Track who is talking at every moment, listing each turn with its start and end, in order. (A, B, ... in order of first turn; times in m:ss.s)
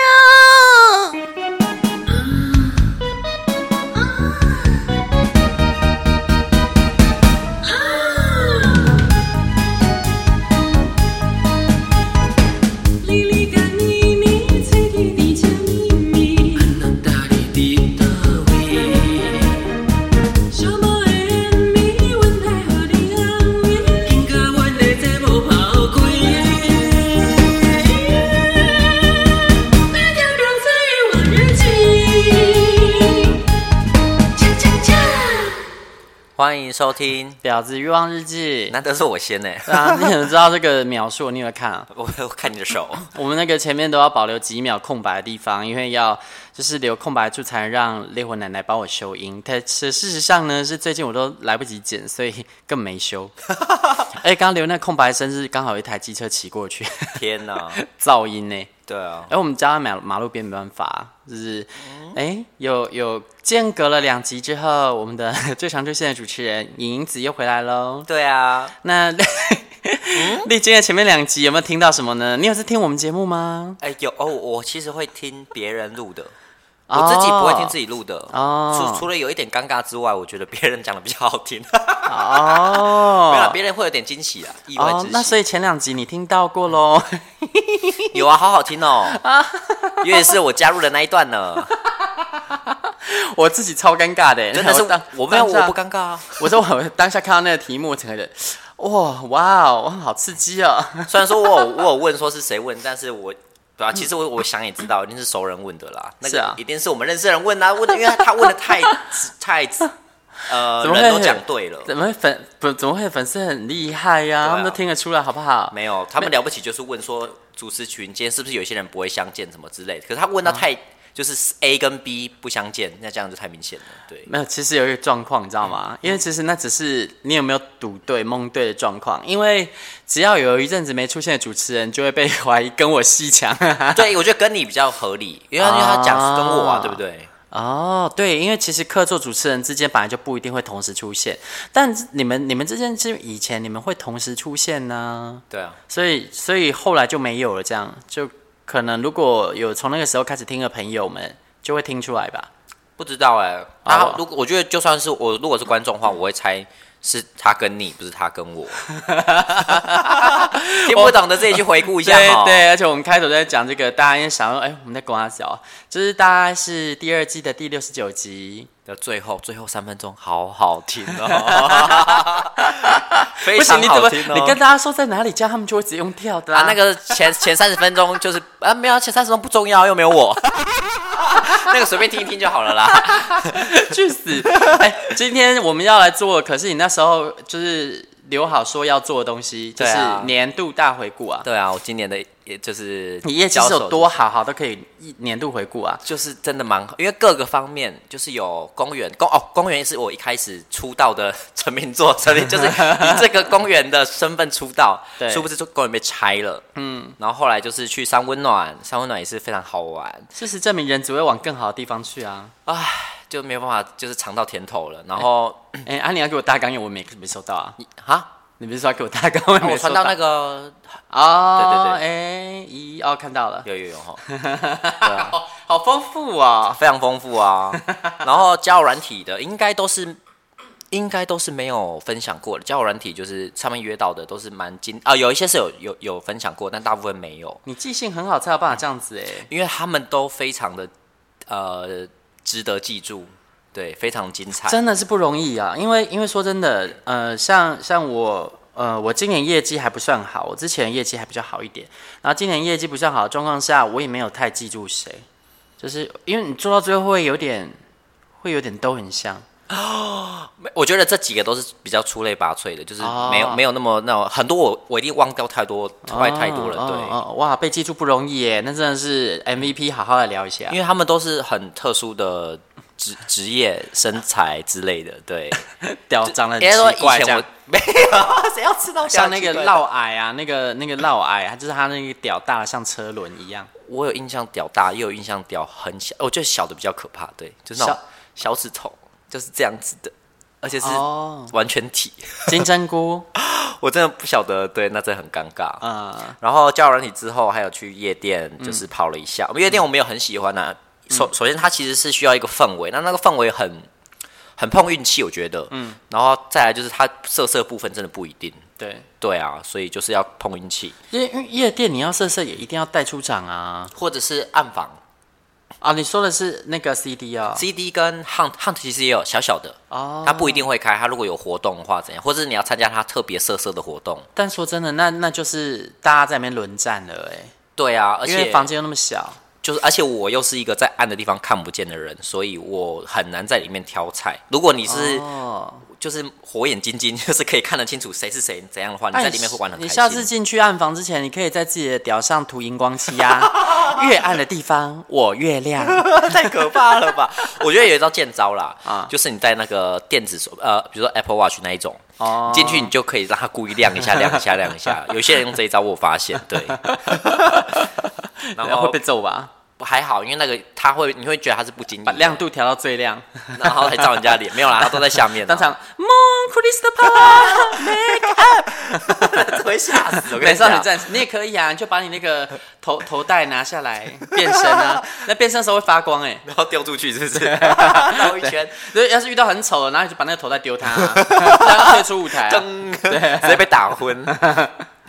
0:07.9-0:08.8 A
0:13.0-0:16.6 A
0:16.7-0:19.4 B
0:22.7-0:23.9 A
0:24.2-0:26.8 B
0:30.1-0:32.2 B
0:34.4-0:35.4 B
0:36.4-0:37.4 C
0:37.4-0:38.7 A
0:38.7-0:40.1 C
0:39.7-0:41.9 A
0:41.9-0:43.1 C
0:43.1-0:53.3 A
0:53.5-0:54.1 C
0:54.1-0:57.2 A
0:57.1-0:57.8 C
0:57.7-0:58.7 A
0:58.9-0:59.3 C
0:59.3-1:08.1 A
1:01.8-1:02.2 C
1:08.1-1:08.7 C
1:08.8-1:13.8 A
1:10.1-1:10.5 C
1:13.8-1:16.3 C
1:16.9-1:17.7 A
1:16.9-1:25.3 C
1:18.3-1:19.0 A
1:22.1-1:23.6 A
1:24.8-1:28.2 A
1:28.1-1:29.2 C
1:29.1-1:30.4 A
1:30.0-1:31.7 C
1:31.8-1:35.8 A
1:34.5-1:36.5 C
1:36.3-1:41.8 A
1:41.1-1:49.9 C
1:46.2-1:46.6 A
1:48.4-1:48.9 A
1:50.4-1:51.9 C
1:50.8-1:56.3 A
1:54.4-1:54.8 C
1:55.7-2:04.3 C
2:04.2-2:14.0 A
2:13.9-2:17.3 C
2:15.6-2:17.0 A
2:17.5-2:32.5 A
2:25.5-2:25.8 C
2:33.0-2:38.9 C
2:33.8-2:34.2 A
2:38.9-2:48.7 A
2:39.6-2:42.6 C
2:48.8-2:54.6 C
2:51.2-2:56.8 A
2:56.5-3:03.9 C
3:02.9-3:11.4 A
3:04.4-3:04.9 C
3:09.8-3:10.4 C
3:11.4-3:14.1 C
3:13.2-3:16.0 A
3:16.0-3:26.7 C
3:22.6-3:23.2 A
3:25.2-3:25.5 A
3:26.8-3:27.1 A
3:27.2-3:30.3 C
3:30.3-3:32.5 A
3:32.6-3:35.8 C
3:35.8-3:37.8 A
3:37.8-3:38.3 C
3:38.6-3:40.1 A
3:39.6-3:40.9 C
3:41.1-3:43.6 A
3:41.6-3:42.0 C
3:43.6-3:44.2 C
3:44.2-3:46.8 A
3:45.0-3:45.3 C
3:46.7-3:50.2 C
3:47.7-3:48.2 A
3:50.9-3:57.6 C
3:57.6-3:59.5 A
3:59.5-4:00.9 C
4:01.5-4:04.8 C
4:04.6-4:15.2 A
4:15.8-4:17.7 A
4:18.4-4:19.4 A
4:19.7-4:27.2 C
4:23.0-4:23.6 A
4:26.1-4:30.8 A
4:30.7-4:35.6 C
4:35.7-4:37.4 A
4:36.6-4:39.8 C
4:39.0-4:43.7 A
4:43.8-4:52.6 C
4:50.8-4:51.5 A
4:52.5-4:53.2 A
4:53.3-4:55.8 C
4:55.8-4:56.4 A
4:56.4-5:03.9 C
4:58.6-4:58.8 A
5:04.6-5:08.6 C
5:05.7-5:06.0 A
5:08.8-5:09.1 A
5:09.2-5:11.0 C
5:11.1-5:13.9 A
5:13.9-5:15.0 C
5:15.8-5:17.6 A
5:17.5-5:24.3 C
5:19.9-5:20.6 A
5:24.4-5:27.5 A
5:27.8-5:28.7 C
5:28.2-5:29.4 A
5:29.6-5:35.3 C
5:34.8-5:35.8 A
5:35.9-5:40.3 C
5:39.1-5:46.7 A
5:43.6-5:43.9 C
5:45.8-5:57.8 C
5:48.8-5:49.1 A
5:52.2-5:52.9 A
5:56.7-5:59.5 A
5:58.5-5:59.0 C
5:59.8-6:02.4 C
6:02.0-6:16.4 A
6:03.5-6:05.7 C
6:07.0-6:11.1 C
6:14.4-6:15.2 C
6:16.4-6:18.9 C
6:17.3-6:23.7 A
6:20.9-6:24.4 C
6:24.2-6:24.8 A